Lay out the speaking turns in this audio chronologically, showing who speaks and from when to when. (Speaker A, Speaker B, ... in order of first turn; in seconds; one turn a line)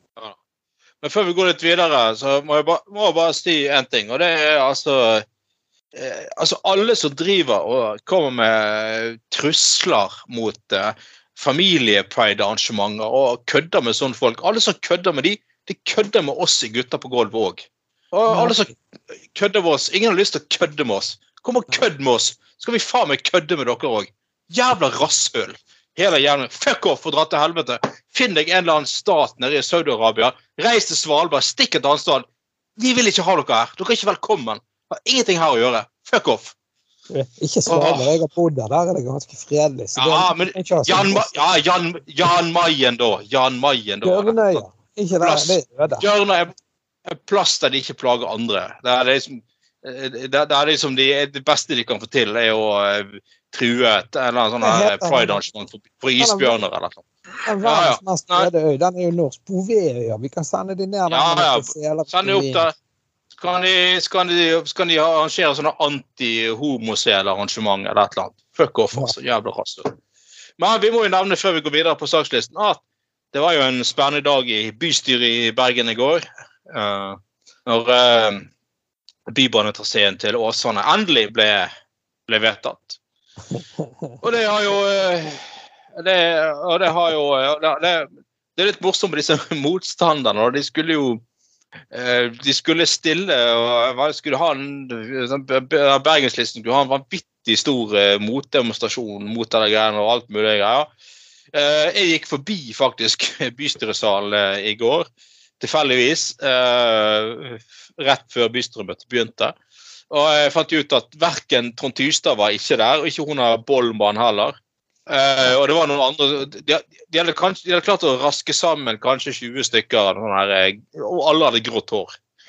Speaker A: 1.0-5.2
Speaker A: 5.9-18.7
Speaker B: 18.3-18.7
Speaker A: 19.3-32.2
Speaker A: 32.8-36.5
Speaker B: 37.1-41.4
Speaker A: 37.7-38.1
Speaker A: 40.0-44.6
Speaker B: 44.0-46.0
Speaker A: 45.2-46.5
Speaker A: 47.1-57.0
Speaker B: 54.6-55.5
Speaker B: 56.2-56.6
Speaker B: 57.4-62.6
Speaker A: 57.6-58.5
Speaker A: 61.1-62.7
Speaker A: 63.4-69.9
Speaker A: 70.6-72.8
Speaker A: 73.3-78.5
Speaker A: 79.3-81.7
Speaker A: 82.3-83.0
Speaker B: 83.5-84.2
Speaker A: 84.2-85.4
Speaker A: 85.9-91.2
Speaker A: 91.9-100.9
Speaker A: 101.5-105.1
Speaker A: 105.6-109.5
Speaker A: 110.1-114.5
Speaker A: 115.1-122.2